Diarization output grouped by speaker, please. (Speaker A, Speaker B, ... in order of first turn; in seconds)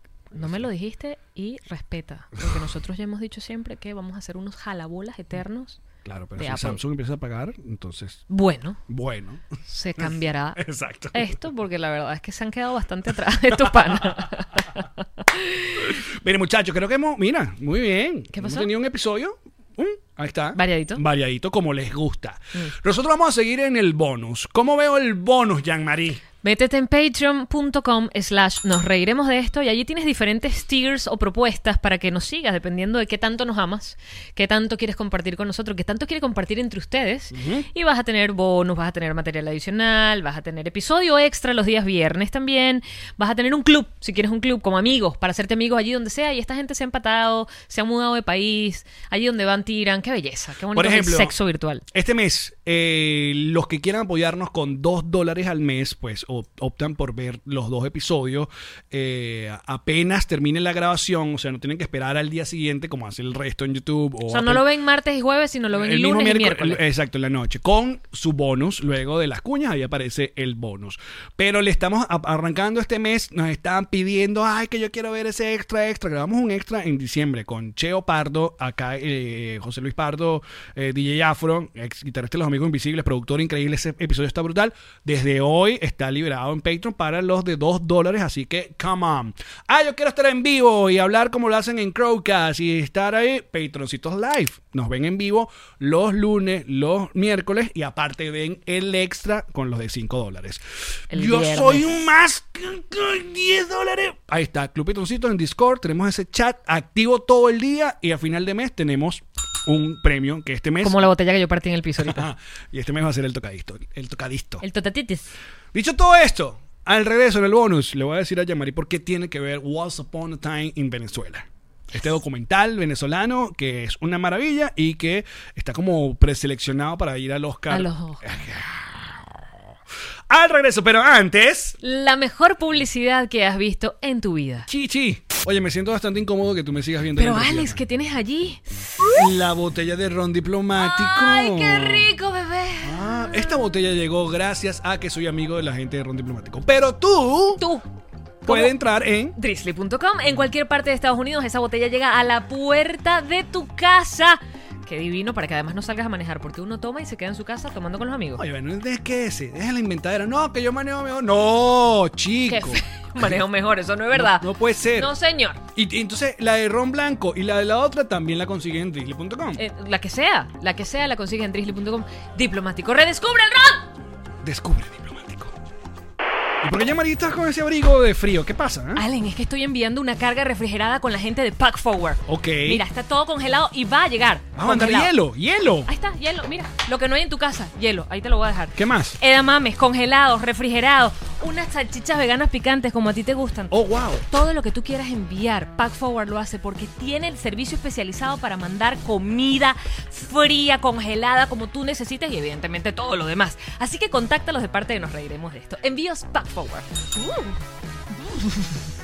Speaker A: 0.3-0.7, 6.0-8.2, 8.9-9.4, 10.0-11.4, 13.5-14.4, 15.8-26.2, 37.3-37.7, 50.7-51.3, 51.9-64.6, 65.7-111.0, 112.0-114.6, 115.7-129.4, 130.3-131.8, 134.7-137.8, 139.1-142.1, 142.8-147.7, 148.4-149.4, 158.4-163.4, 164.1-165.1, 165.7-169.6, 174.4-175.5, 176.6-179.0, 182.2-182.8, 184.6-185.9, 188.8-189.2, 193.7-194.2
Speaker B: 0.3-5.8, 6.4-6.8, 8.3-8.8, 9.7-10.6, 11.1-15.9, 18.3-18.7, 20.5-21.0, 26.4-51.8, 64.3-66.8, 101.1-101.9, 110.8-112.3, 114.6-115.3, 127.7-128.2, 131.8-134.7, 137.2-139.1, 140.8-143.0, 147.6-147.8, 148.4-148.7, 149.3-158.4, 162.5-165.6, 169.6-173.9, 178.9-185.1, 185.9-193.7, 194.3-207.6